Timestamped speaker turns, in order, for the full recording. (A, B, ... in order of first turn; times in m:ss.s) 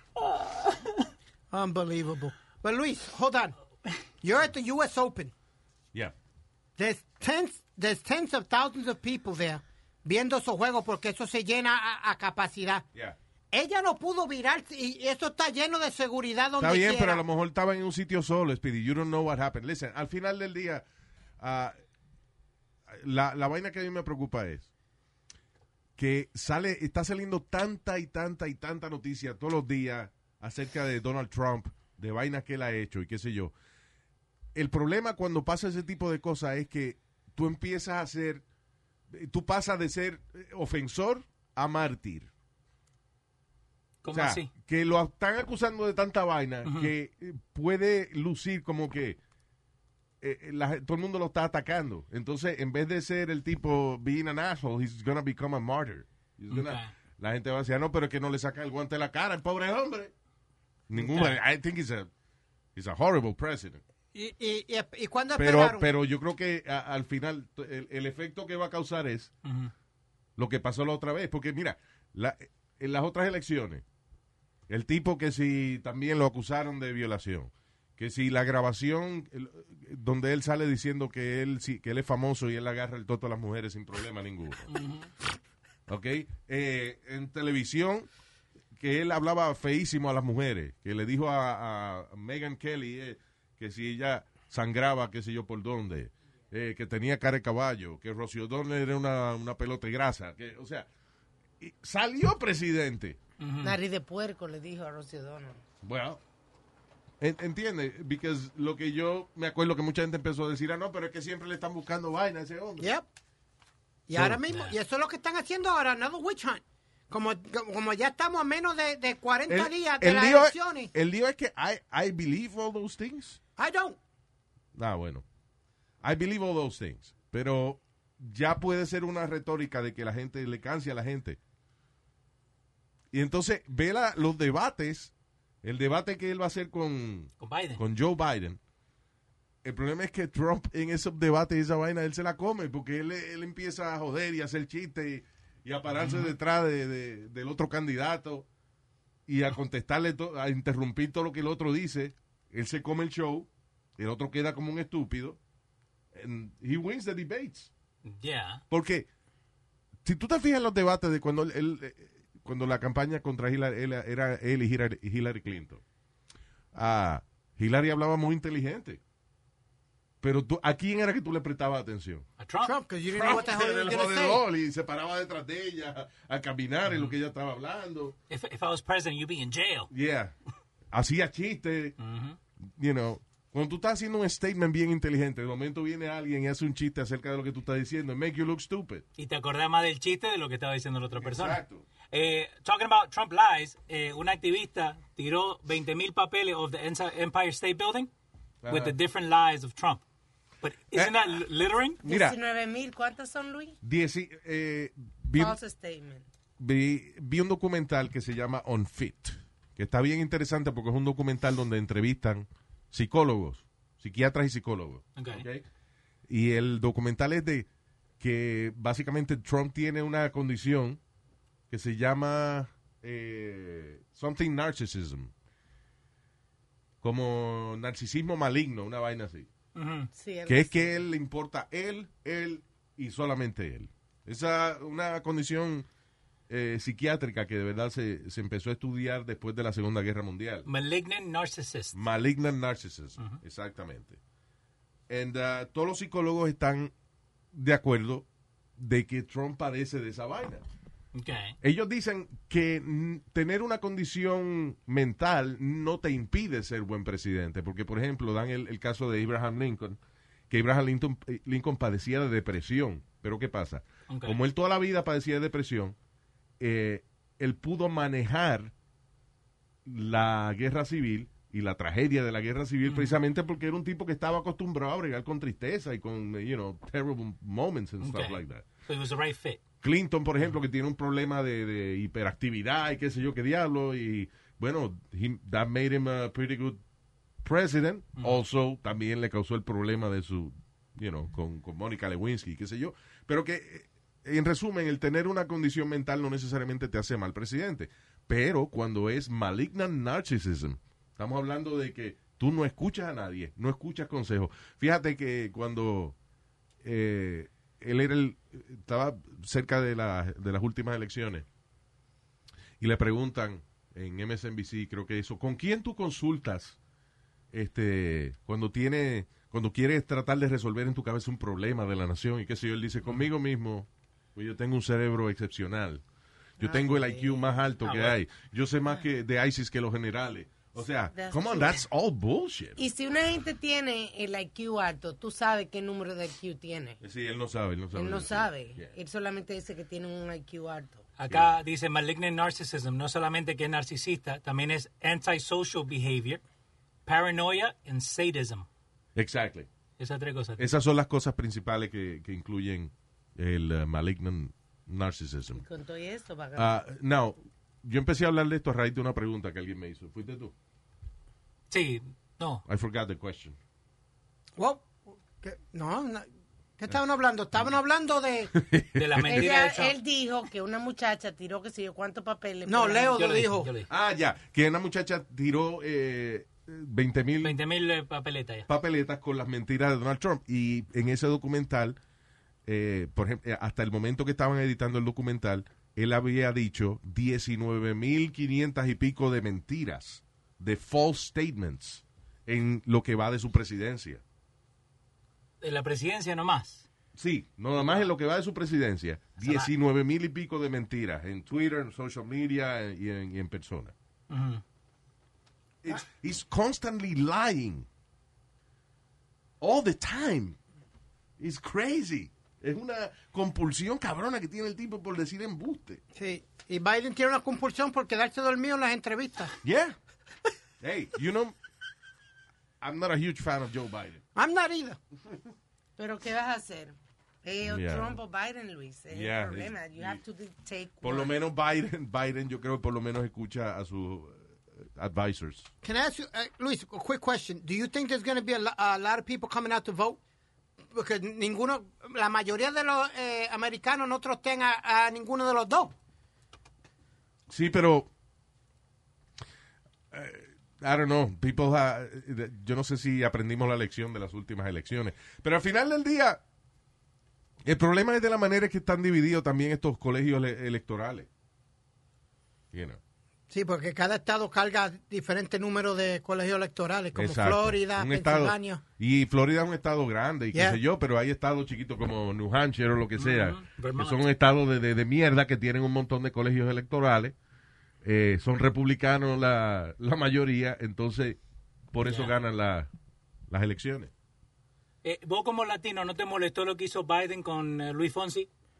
0:01.5-0:03.6 A
0:04.2-0:05.3 A
0:06.8-0:12.8 A
0:13.5-0:17.2 A
0:16.6-0:20.8 B
0:21.4-0:21.8 B
0:22.9-0:24.7 B
0:26.0-0:33.5 B
0:34.5-0:38.4 B
0:39.1-0:42.3 B
0:44.0-0:44.5 C
0:44.1-0:49.2 B
0:50.2-1:00.1 B
0:56.5-0:56.9 C
1:00.9-1:02.1 B
1:01.0-1:01.4 C
1:02.8-1:03.8 B
1:04.1-1:05.9 A
1:05.4-1:09.3 B
1:09.4-1:09.7 C
1:10.4-1:13.8 B
1:14.7-1:24.8 B
1:24.7-1:25.1 C
1:25.9-1:28.1 B
1:28.8-1:40.9 B
1:41.6-1:43.2 B
1:43.4-1:43.8 C
1:43.6-1:45.6 D
1:45.8-1:46.2 B
1:47.2-1:52.9 B
1:52.8-1:53.0 A
1:54.1-2:00.9 A
1:54.1-1:54.4 B
1:54.5-1:54.8 C
1:59.5-2:03.4 B
2:03.6-2:04.0 A
2:04.7-2:05.2 B
2:06.0-2:11.4 B
2:13.1-2:15.1 B
2:15.6-2:18.6 B
2:17.4-2:17.8 C
2:19.6-2:28.5 B
2:25.9-2:26.3 C
2:29.3-2:35.4 B
2:36.1-2:37.7 B
2:38.0-2:38.6 C
2:38.7-2:39.1 B
2:40.0-2:45.8 B
2:46.7-2:49.0 B
2:50.2-2:52.2 B
2:52.4-2:52.7 C
2:52.6-2:54.4 A
2:53.1-2:58.2 B
2:56.9-2:57.1 C
2:58.3-2:59.9 C
2:59.9-3:00.3 B
3:00.9-3:02.0 B
3:02.0-3:02.4 C
3:02.8-3:09.0 B
3:09.2-3:11.6 C
3:11.2-3:11.8 B
3:12.1-3:18.1 C
3:18.6-3:19.0 B
3:18.7-3:20.0 C
3:20.6-3:22.0 C
3:20.9-3:21.4 B
3:22.0-3:22.4 B
3:22.0-3:23.8 D
3:23.8-3:25.6 B
3:25.3-3:26.2 D
3:26.6-3:35.6 B
3:35.2-3:35.4 C
3:36.3-3:37.7 B
3:38.2-3:41.0 B
3:41.7-3:45.3 B
3:47.0-3:49.5 B
3:49.7-3:50.1 C
3:50.1-3:51.0 D
3:50.5-3:55.9 B
3:56.5-4:00.7 B
4:00.6-4:02.0 C
4:01.9-4:04.2 B
4:05.1-4:06.9 B
4:07.5-4:08.2 B
4:08.8-4:10.6 B
4:11.1-4:11.6 C
4:11.6-4:20.0 B
4:20.5-4:26.0 B
4:24.1-4:24.4 C
4:26.6-4:28.7 B
4:29.8-4:38.6 B
4:32.9-4:33.2 C
4:38.0-4:39.6 C
4:39.8-4:46.8 B
4:47.4-5:06.1 B
5:06.8-5:11.4 B
5:12.8-5:16.8 B
5:17.5-5:26.0 B
5:26.6-5:32.8 B
5:26.6-5:27.3 D
5:27.8-5:28.2 C
5:31.1-5:31.8 D
5:32.8-5:37.0 D
5:37.0-5:38.9 B
5:37.9-5:41.0 D
5:41.2-5:46.4 C
5:41.3-5:41.5 B
5:47.0-5:48.7 C
5:49.2-5:49.7 B
5:50.0-5:50.6 C
5:50.6-5:55.6 B
5:55.6-5:56.8 D
5:56.6-6:00.5 B
6:01.7-6:02.6 C
6:02.7-6:03.6 B
6:04.6-6:06.3 A
6:06.8-6:08.5 A
6:08.5-6:09.5 B
6:08.9-6:09.9 C
6:09.2-6:13.2 D
6:12.6-6:13.7 A
6:13.1-6:13.9 C
6:13.9-6:17.5 B
6:17.4-6:18.7 C
6:18.7-6:22.0 B
6:22.6-6:34.2 B
6:35.6-6:36.8 C
6:37.1-6:43.9 B
6:37.8-6:38.1 C
6:39.4-6:39.7 C
6:44.3-6:44.6 C
6:45.8-6:47.9 B
6:49.6-6:50.6 B
6:51.4-6:56.0 B
6:56.1-6:59.5 A
6:59.6-7:00.0 B
7:00.8-7:01.5 B
7:02.8-7:04.2 B
7:04.3-7:05.0 A
7:06.0-7:11.3 D
7:07.6-7:08.2 B
7:09.1-7:10.2 B
7:11.0-7:15.7 B
7:15.8-7:20.2 A
7:20.9-7:25.9 A
7:27.5-7:28.1 B
7:30.1-7:36.4 B
7:37.6-7:41.3 B
7:42.7-7:43.0 B
7:43.5-7:48.8 A
7:47.1-7:57.3 B
7:53.2-7:54.2 C
7:58.0-8:01.4 B
8:01.9-8:02.9 B
8:02.0-8:02.3 C
8:03.5-8:04.1 B
8:05.0-8:08.5 C